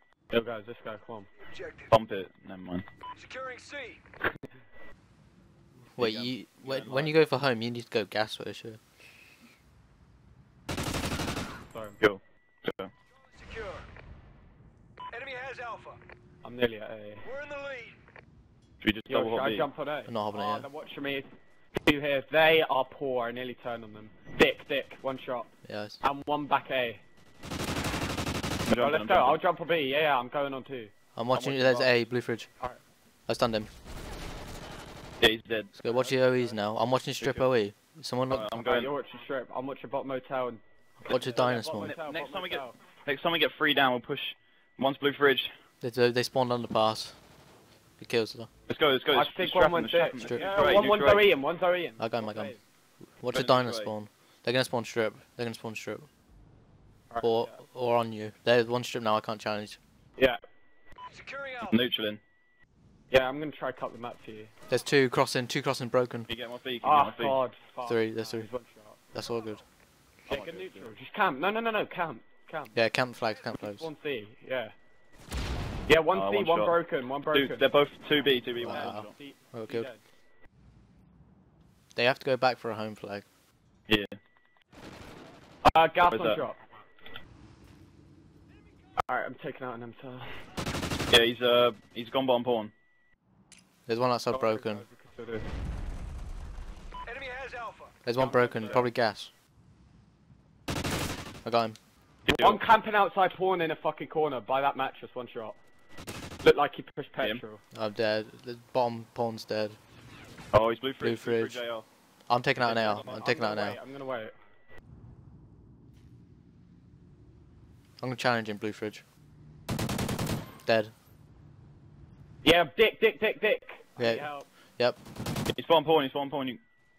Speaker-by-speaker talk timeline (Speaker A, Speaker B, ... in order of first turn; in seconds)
Speaker A: 0.3-1.3, 11.7-12.0, 16.4-17.3, 19.1-21.3, 21.9-27.0, 28.8-30.9, 35.8-36.6, 38.6-42.8, 49.1-52.6, 57.1-57.6, 63.1-64.5, 66.8-69.0, 70.3-72.8, 73.5-74.7, 75.9-77.7, 78.6-80.0, 85.6-86.6, 89.1-90.4, 94.3-95.5, 98.2-98.9, 102.3-105.6, 106.4-107.6, 112.6-114.3, 122.4-124.5
Speaker B: 1.9-2.9, 6.0-7.2, 12.0-12.9, 18.8-19.7, 28.7-29.4, 31.3-32.0, 35.2-35.8, 37.2-37.5, 38.3-38.9, 41.4-45.5, 48.7-51.3, 53.3-53.9, 61.6-62.2, 66.3-67.4, 70.3-71.0, 76.1-76.8, 77.3-79.1, 86.1-86.5, 91.1-92.7, 102.2-102.6, 110.5-111.8, 125.5-126.6
Speaker C: 3.2-3.9, 15.2-15.9, 17.4-17.9, 97.2-97.6
Speaker D: 6.0-8.8, 20.1-20.6, 25.6-26.0, 31.1-32.5, 33.3-33.7, 35.8-38.5, 41.0-41.9, 45.8-47.2, 48.0-48.5, 50.2-50.4, 52.0-52.6, 53.2-56.1, 57.2-59.8, 64.7-66.3, 67.8-68.5, 69.1-69.6, 72.7-73.9, 78.6-79.9, 81.9-83.2, 93.9-94.8, 98.0-99.3, 101.4-101.8, 107.7-109.8, 111.0-111.6, 112.3-113.8, 118.0-119.0, 120.7-120.9, 124.0-125.0